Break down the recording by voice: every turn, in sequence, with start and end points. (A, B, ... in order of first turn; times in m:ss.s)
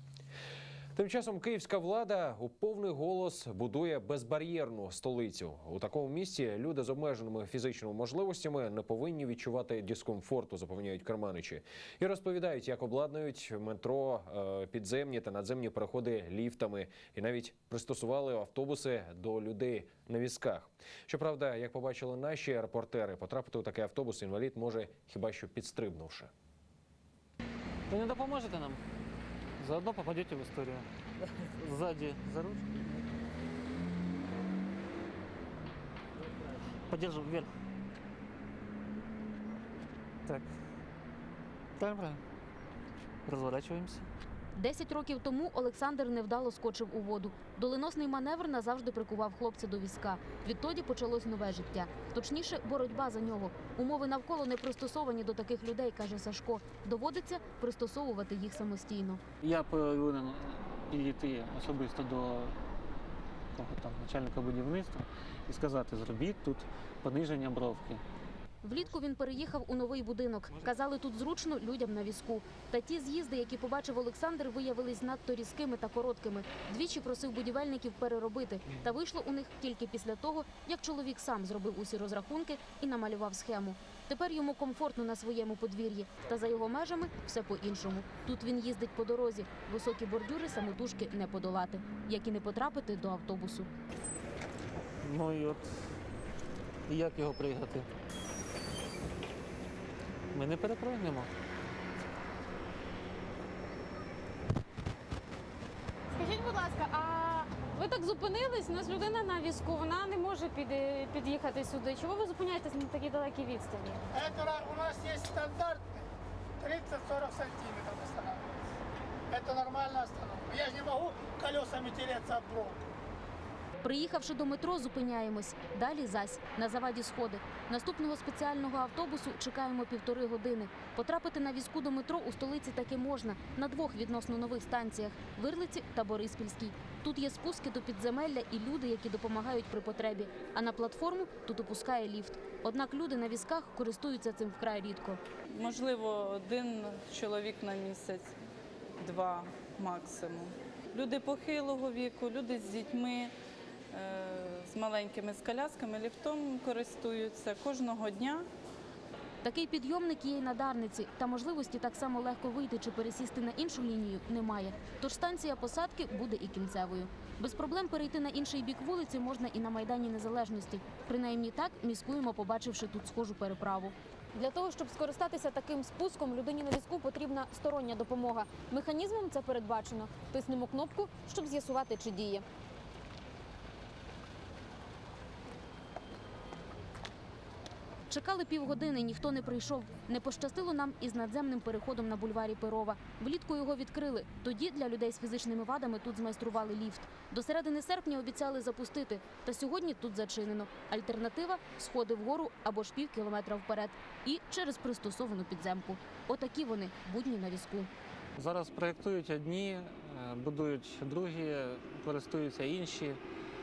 0:01.0-0:26.3 A
0:27.9-0:28.8 B
0:29.6-0:32.9 B
0:36.9-0:37.5 B
0:41.8-0:42.2 B
0:43.2-0:44.1 B
0:44.6-0:59.2 C
0:59.4-1:02.6 B
1:03.5-1:08.0 B
1:08.6-1:33.7 C
1:35.0-1:35.9 B
1:36.9-1:37.9 B
1:40.3-1:41.3 B
1:46.1-1:54.0 D
1:54.1-1:56.0 E
1:56.6-1:58.6 E
1:59.3-2:02.9 E
2:03.8-2:25.2 C
2:25.5-2:28.3 F
2:29.0-2:33.3 F
2:33.9-2:38.4 F
2:39.4-3:02.4 C
3:08.1-3:27.9 C
3:28.4-3:33.2 B